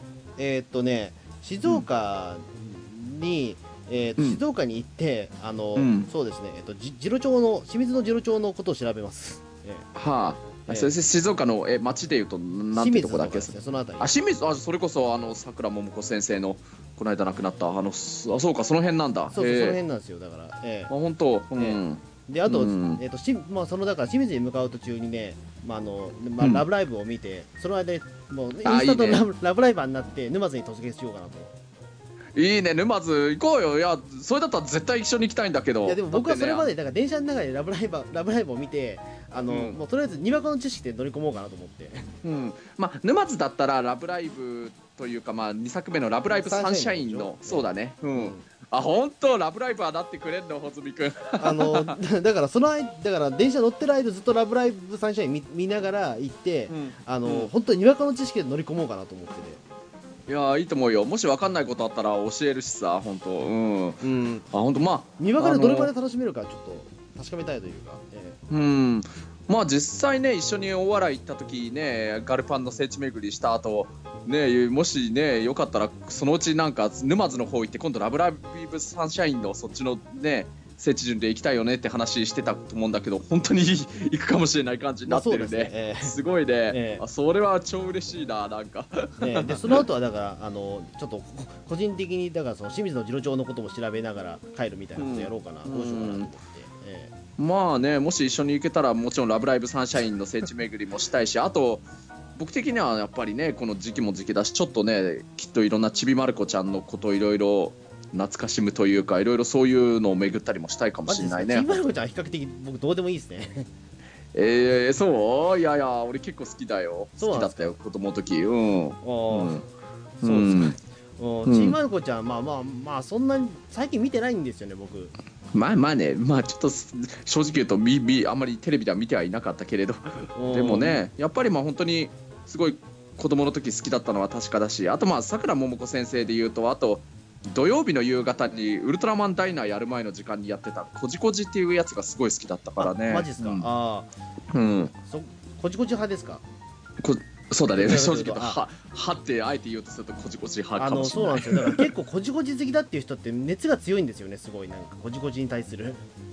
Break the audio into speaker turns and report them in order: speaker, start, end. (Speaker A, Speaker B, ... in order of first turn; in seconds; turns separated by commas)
Speaker A: 0.4-9.9, Speaker B: 5.8-6.1, Speaker B: 9.9-19.8, Speaker A: 12.7-14.1, Speaker A: 19.3-20.9, Speaker B: 20.9-23.0, Speaker A: 21.6-31.5, Speaker B: 26.4-26.6, Speaker B: 28.6-29.3, Speaker B: 32.4-36.7, Speaker A: 35.8-42.1, Speaker B: 39.5-39.8, Speaker B: 42.2-52.0, Speaker A: 46.3-48.5, Speaker A: 51.4-59.6, Speaker B: 56.7-57.5, Speaker B: 60.3-65.9, Speaker A: 64.0-64.5, Speaker A: 65.2-68.4, Speaker B: 68.5-89.8, Speaker A: 85.1-86.2, Speaker A: 86.7-87.0, Speaker A: 89.2-97.1, Speaker B: 95.0-96.3, Speaker B: 97.4-111.8, Speaker A: 111.1-113.7, Speaker B: 114.3-119.7, Speaker A: 117.2-117.8, Speaker A: 119.0-119.6, Speaker B: 120.2-120.8, Speaker A: 120.2-125.1, Speaker B: 121.5-121.8, Speaker B: 125.5-143.7, Speaker A: 130.3-131.0, Speaker A: 142.8-144.1, Speaker B: 144.5-144.9, Speaker A: 145.1-146.4, Speaker B: 147.0-151.9, Speaker A: 147.8-148.6, Speaker A: 150.8-156.0